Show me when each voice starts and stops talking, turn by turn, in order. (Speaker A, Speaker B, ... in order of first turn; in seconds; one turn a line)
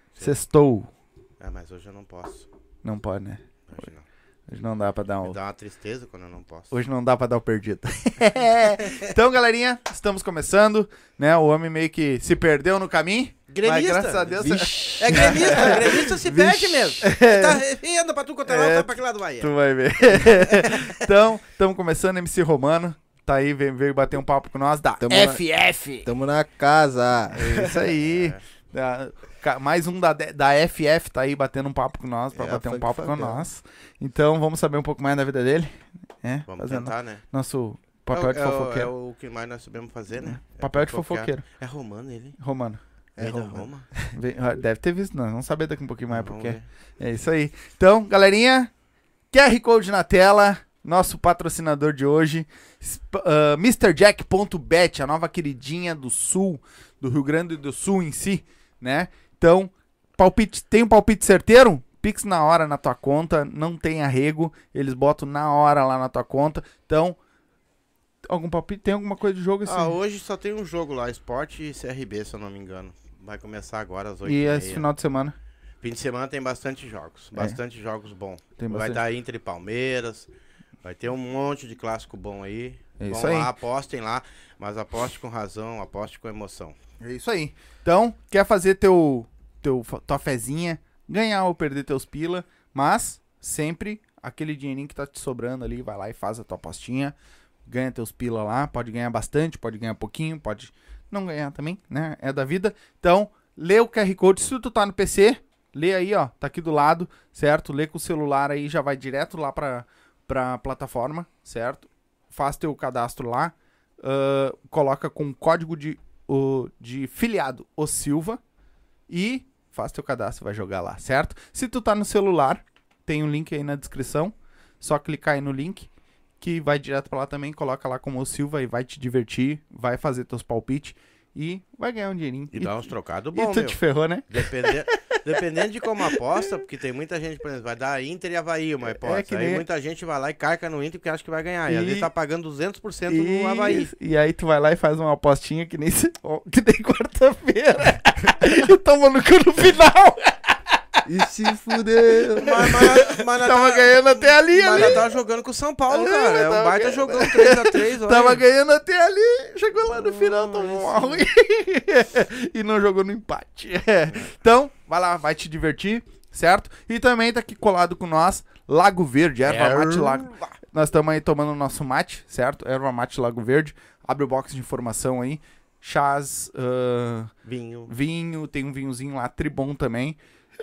Speaker A: 0.2-0.9
Speaker B: 1.4-2.5
Speaker A: 2.8-3.9
Speaker B: 3.7-4.0
Speaker A: 4.5-5.4
Speaker B: 5.2-6.7
Speaker A: 6.7-17.6
Speaker B: 13.5-19.5
Speaker C: 14.7-15.9
Speaker A: 18.5-26.1
Speaker C: 25.0-27.7
Speaker A: 27.3-38.9
Speaker B: 28.0-28.4
Speaker C: 32.3-33.5
Speaker B: 36.5-37.3
Speaker B: 38.1-42.4
Speaker A: 40.2-41.4
Speaker A: 42.4-42.8
Speaker C: 43.2-44.2
Speaker B: 43.2-44.0
Speaker A: 44.1-48.8
Speaker B: 46.1-46.7
Speaker A: 49.3-67.2
Speaker A: 68.2-70.0
Speaker B: 69.7-74.9
Speaker A: 74.3-75.3
Speaker B: 75.8-80.3
Speaker A: 78.6-79.0
Speaker B: 80.8-86.8
Speaker A: 83.0-83.5
Speaker A: 87.0-118.4
Speaker A: 119.1-135.4
Speaker B: 132.5-143.9
Speaker A: 138.9-139.6
Speaker A: 141.7-142.1
Speaker A: 143.1-150.6
Speaker C: 151.1-152.9
Speaker B: 152.4-158.4
Speaker A: 152.4-155.0
Speaker A: 155.9-180.2
Speaker B: 159.9-161.2
Speaker B: 169.4-170.5
Speaker B: 177.4-177.9